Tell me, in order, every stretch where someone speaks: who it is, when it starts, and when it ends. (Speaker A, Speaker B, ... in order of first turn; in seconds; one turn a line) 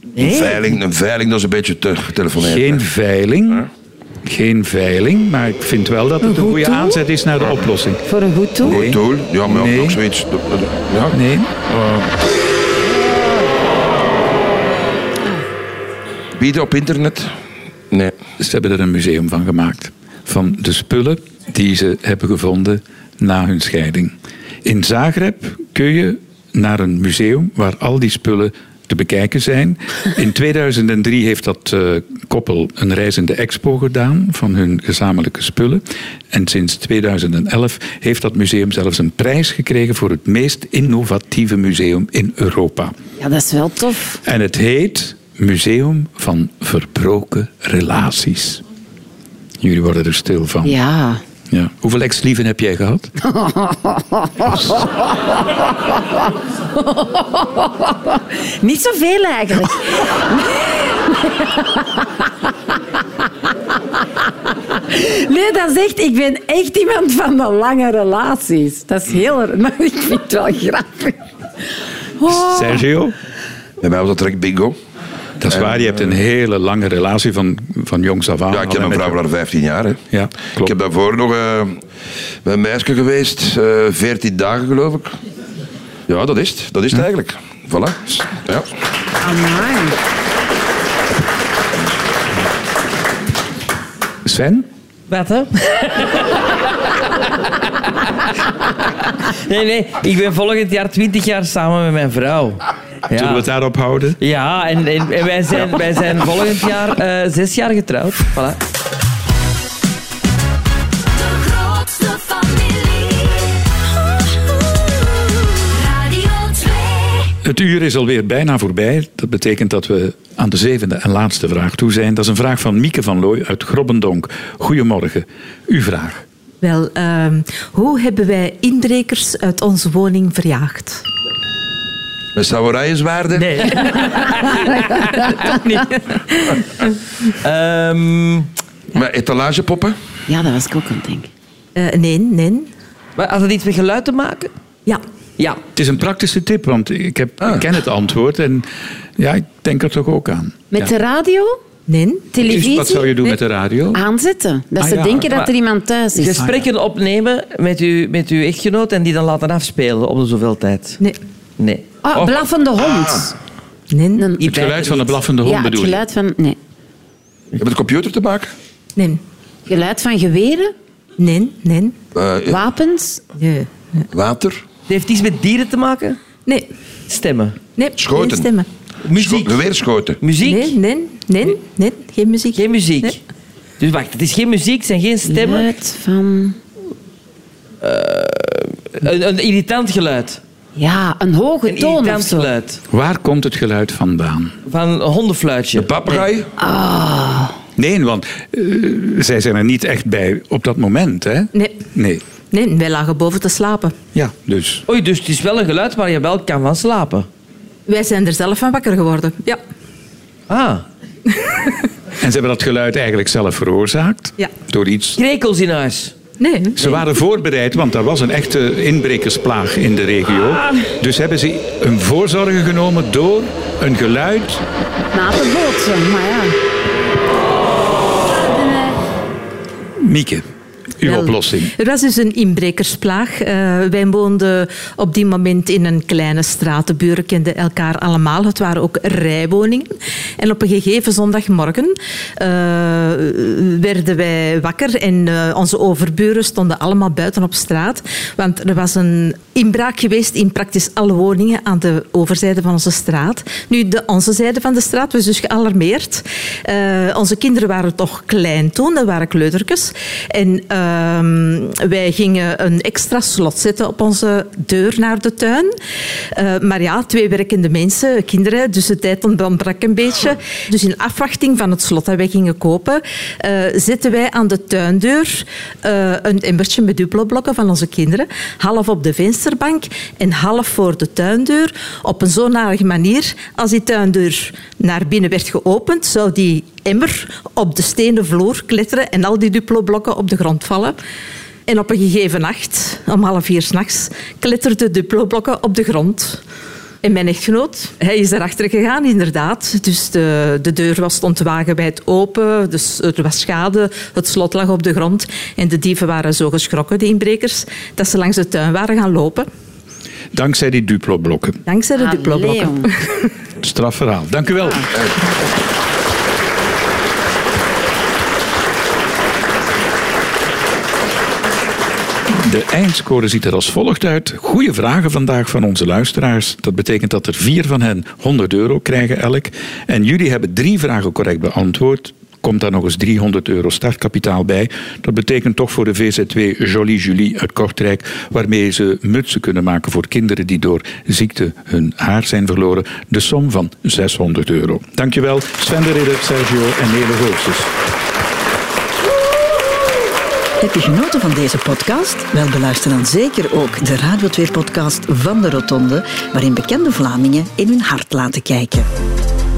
Speaker A: 0.1-0.7
Speaker B: 0.2-2.9
Speaker C: 2.4-3.7
Speaker C: 4.2-8.0
Speaker D: 6.2-7.0
Speaker D: 8.1-8.8
Speaker C: 8.6-10.0
Speaker B: 8.7-11.2
Speaker C: 11.1-12.1
Speaker B: 16.4-17.3
Speaker C: 18.4-24.1
Speaker C: 24.6-42.9
Speaker D: 43.2-44.2
Speaker C: 44.2-48.6
Speaker C: 49.6-50.8
Speaker D: 50.6-51.2
Speaker C: 51.5-53.1
Speaker D: 53.2-62.0
Speaker C: 54.5-54.9
Speaker D: 64.5-71.2
Speaker D: 72.2-72.8
Speaker C: 72.3-73.1
Speaker B: 73.8-74.8
Speaker C: 75.4-79.2
Speaker B: 75.5-75.8
Speaker B: 78.5-80.0
Speaker C: 80.1-80.7
Speaker B: 80.6-81.8
Speaker B: 82.4-85.2
Speaker B: 86.1-88.7
Speaker D: 89.2-90.0
Speaker C: 94.2-94.7
Speaker A: 95.1-96.5
Speaker A: 99.5-103.5
Speaker C: 103.1-104.2
Speaker A: 104.2-108.6
Speaker E: 111.2-113.6
Speaker E: 115.7-117.3
Speaker C: 117.4-126.2
Speaker F: 126.6-131.1
Speaker B: 132.3-134.1
Speaker A: 133.6-135.5
Speaker D: 134.8-135.1
Speaker F: 135.4-136.7
Speaker A: 137.4-138.5
Speaker B: 138.9-139.9
Speaker D: 140.3-141.3
Speaker F: 141.8-142.7
Speaker A: 143.2-144.5
Speaker C: 145.8-150.9
Speaker D: 150.7-151.6
Speaker F: 151.9-152.3
Speaker D: 152.3-153.2
Speaker C: 152.4-154.0
Speaker D: 153.9-156.4
Speaker C: 154.8-155.3
Speaker A: 156.2-161.0
Speaker C: 156.4-156.6
Speaker A: 161.6-161.8
Speaker D: 162.0-163.3
Speaker B: 162.1-163.3
Speaker F: 163.9-164.3
Speaker D: 164.2-164.4
Speaker A: 164.4-165.2
Speaker C: 164.4-166.0
Speaker D: 165.4-166.6
Speaker B: 167.6-168.5
Speaker F: 168.9-169.2
Speaker D: 169.7-170.7
Speaker F: 171.2-172.0
Speaker B: 172.1-172.6
Speaker D: 172.5-173.2
Speaker F: 173.4-174.1
Speaker B: 174.1-174.6
Speaker A: 174.9-176.2
Speaker A: 177.1-177.6
Speaker F: 177.8-178.7
Speaker B: 178.0-178.5
Speaker A: 179.0-179.6
Speaker B: 179.1-180.2
Speaker A: 180.2-180.8
Speaker F: 180.4-183.1
Speaker A: 182.6-183.2
Speaker A: 183.8-185.7
Speaker D: 185.3-186.6
Speaker A: 187.8-190.4
Speaker D: 190.8-192.5
Speaker A: 191.7-192.8
Speaker C: 192.9-194.6
Speaker A: 194.7-196.3
Speaker B: 195.7-196.5
Speaker D: 196.6-197.6
Speaker C: 197.8-202.2
Speaker F: 201.5-201.9
Speaker F: 202.5-204.0
Speaker C: 204.1-204.8
Speaker A: 204.9-207.3
Speaker F: 207.9-209.6
Speaker A: 210.5-210.8
Speaker F: 211.4-211.7
Speaker C: 212.2-215.2
Speaker A: 215.2-216.2
Speaker F: 216.4-216.8
Speaker C: 216.8-224.6
Speaker D: 225.1-226.6
Speaker C: 230.0-230.4
Speaker C: 231.0-231.7
Speaker F: 231.0-265.8
Speaker F: 266.3-291.0
Speaker F: 291.7-296.4
Speaker F: 297.0-309.5
Speaker C: 310.3-311.6
Speaker F: 311.7-313.3
Speaker D: 311.9-312.9
Speaker C: 313.6-315.0
Speaker C: 322.3-347.7
Speaker G: 350.6-358.9